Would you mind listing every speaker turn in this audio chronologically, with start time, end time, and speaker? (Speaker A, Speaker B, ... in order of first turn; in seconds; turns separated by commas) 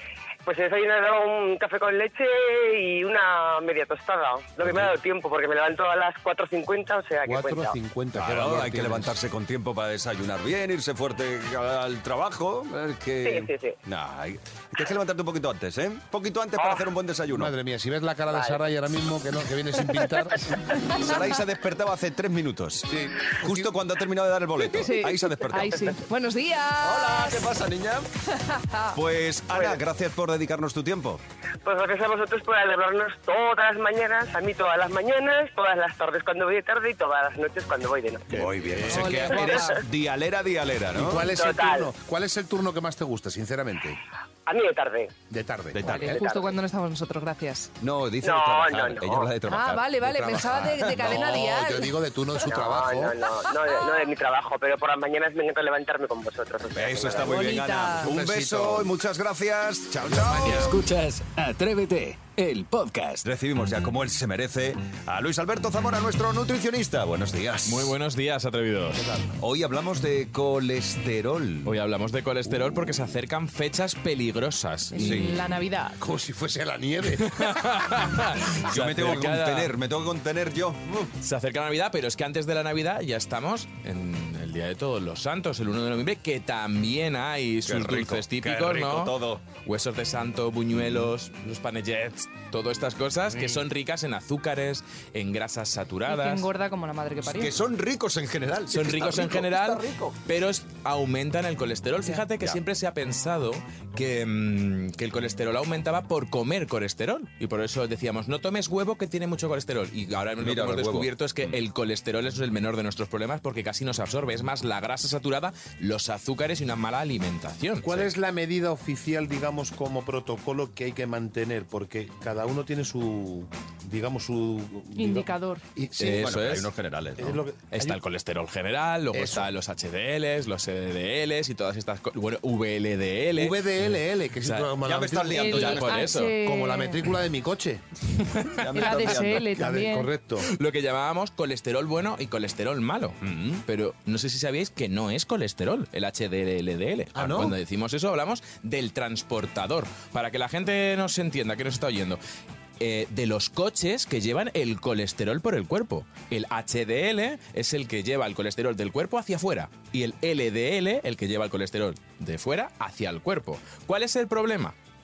Speaker A: 0.5-7.7, Speaker B: 4.6-4.9, Speaker C: 7.2-9.1, Speaker B: 8.1-17.5, Speaker A: 13.2-13.8, Speaker A: 16.6-16.8, Speaker C: 17.3-20.9, Speaker A: 18.3-18.6, Speaker B: 20.9-26.0, Speaker C: 22.9-23.7, Speaker D: 24.6-27.6, Speaker B: 26.8-28.1, Speaker D: 28.4-28.9, Speaker B: 28.9-31.2, Speaker A: 29.5-29.8, Speaker A: 31.6-38.5, Speaker B: 38.3-41.3, Speaker C: 38.4-39.8, Speaker D: 38.9-39.7, Speaker C: 40.9-44.0, Speaker A: 41.3-41.9, Speaker A: 44.5-45.1, Speaker C: 45.3-46.2, Speaker B: 45.7-46.2, Speaker D: 45.8-47.7, Speaker A: 46.1-46.5, Speaker B: 47.8-51.3, Speaker A: 48.2-49.3, Speaker D: 49.4-51.9, Speaker C: 50.1-53.2, Speaker A: 52.4-57.4, Speaker D: 53.7-54.0, Speaker B: 56.7-60.8, Speaker D: 57.1-58.1, Speaker C: 58.0-58.9, Speaker C: 60.1-60.7, Speaker E: 60.4-63.3, Speaker B: 63.2-67.9, Speaker F: 67.7-69.0, Speaker C: 68.9-69.3, Speaker B: 69.4-71.7, Speaker F: 71.6-75.2, Speaker D: 74.9-76.0, Speaker B: 75.0-75.3, Speaker C: 76.0-77.6, Speaker F: 77.2-79.7, Speaker B: 78.7-81.1, Speaker F: 81.2-96.5, Speaker B: 87.7-89.4, Speaker D: 96.0-97.6, Speaker B: 97.2-100.2, Speaker F: 98.7-118.0, Speaker B: 110.4-111.6, Speaker C: 117.8-126.3, Speaker D: 124.9-125.6, Speaker F: 126.0-126.7, Speaker B: 126.1-127.3, Speaker C: 127.2-128.0, Speaker F: 127.7-134.7, Speaker C: 129.1-129.5, Speaker C: 133.3-135.5, Speaker B: 134.8-136.1, Speaker D: 135.3-137.1, Speaker F: 135.3-136.3, Speaker C: 136.4-137.8, Speaker F: 138.2-138.9, Speaker B: 138.6-139.5, Speaker D: 138.7-140.1, Speaker C: 139.4-140.5, Speaker F: 140.4-152.2, Speaker B: 143.2-143.6, Speaker C: 147.1-147.5, Speaker F: 152.8-164.7